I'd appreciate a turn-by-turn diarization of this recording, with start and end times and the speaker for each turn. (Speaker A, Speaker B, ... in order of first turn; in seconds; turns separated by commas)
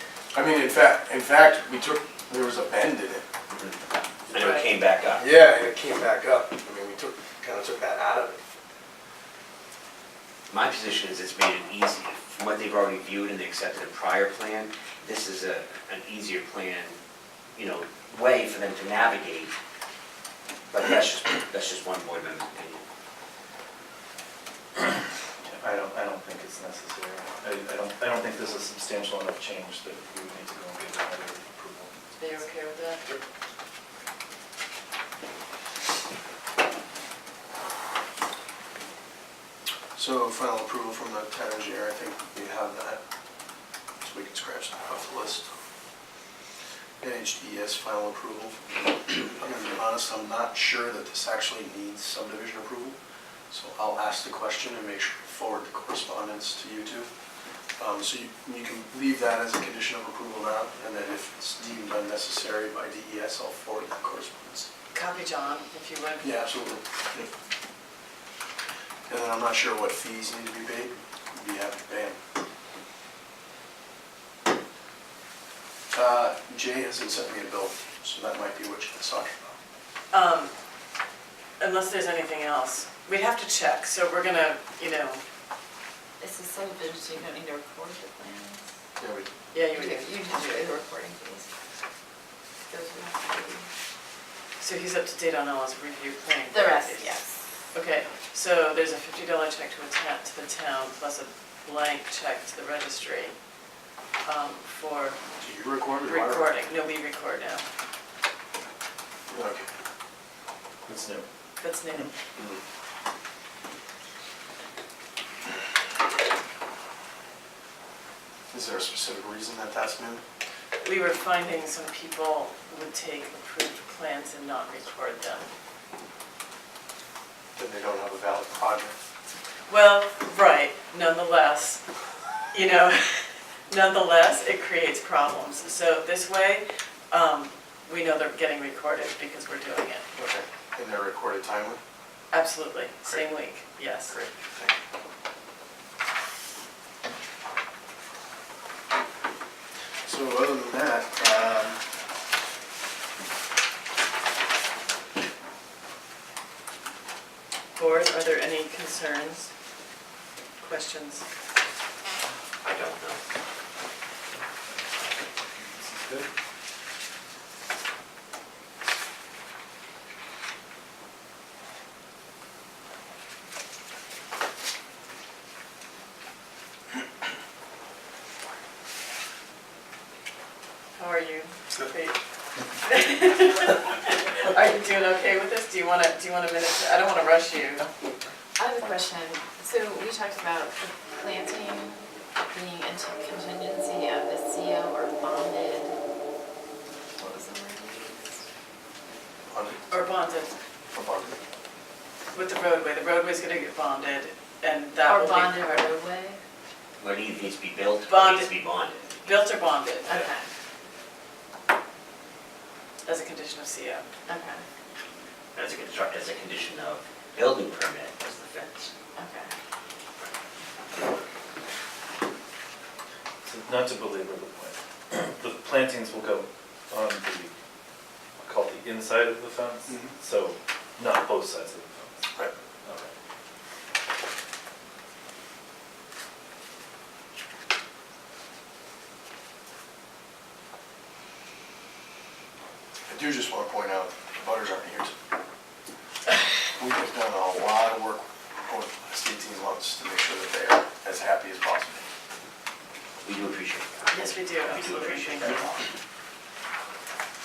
Speaker A: 0.3-3.2, Speaker A: 4.3-4.5, Speaker B: 4.3-5.3, Speaker C: 4.4-4.7, Speaker A: 5.1-8.4, Speaker B: 10.5-17.0, Speaker B: 17.5-19.5, Speaker B: 20.7-22.8, Speaker D: 25.4-31.9, Speaker C: 32.2-33.2, Speaker A: 39.9-43.0, Speaker A: 44.0-45.5, Speaker A: 47.0-53.0, Speaker A: 53.5-57.1, Speaker A: 57.8-64.7, Speaker C: 64.9-66.5, Speaker A: 66.2-67.3, Speaker A: 69.1-72.2, Speaker A: 75.9-79.5, Speaker C: 80.1-80.5, Speaker C: 81.6-85.2, Speaker E: 86.2-88.7, Speaker A: 89.0-89.3, Speaker C: 89.5-90.5, Speaker E: 89.7-91.5, Speaker E: 92.7-93.7, Speaker C: 94.6-97.2, Speaker E: 96.5-97.3, Speaker C: 97.7-103.3, Speaker C: 104.2-105.2, Speaker A: 105.4-106.5, Speaker C: 106.0-107.7, Speaker A: 109.3-109.7, Speaker D: 110.8-111.2, Speaker C: 111.6-112.1, Speaker A: 112.3-112.6, Speaker A: 118.5-120.2, Speaker C: 120.8-125.5, Speaker A: 127.5-129.0, Speaker C: 129.7-131.8, Speaker C: 132.5-140.0, Speaker A: 140.1-141.8, Speaker C: 142.3-144.1, Speaker A: 144.1-144.8, Speaker A: 150.0-151.8, Speaker C: 157.8-159.5, Speaker C: 160.6-161.2, Speaker B: 162.6-163.2, Speaker D: 165.5-166.3, Speaker C: 180.9-182.2, Speaker C: 182.8-187.9, Speaker E: 188.6-195.9, Speaker E: 197.2-198.3, Speaker A: 199.5-199.8, Speaker C: 199.9-200.5, Speaker A: 200.9-201.4, Speaker C: 202.3-205.9, Speaker E: 205.0-206.4, Speaker B: 207.0-210.3, Speaker C: 208.1-208.6, Speaker C: 209.2-210.1, Speaker E: 210.1-210.4, Speaker C: 213.1-214.1, Speaker E: 214.3-214.6, Speaker B: 215.5-218.9, Speaker E: 219.2-219.5, Speaker D: 223.4-227.5, Speaker D: 228.4-232.2, Speaker A: 229.9-230.2, Speaker D: 232.8-233.1, Speaker A: 243.1-245.1, Speaker A: 246.8-252.1, Speaker B: 253.2-255.8, Speaker C: 254.1-255.8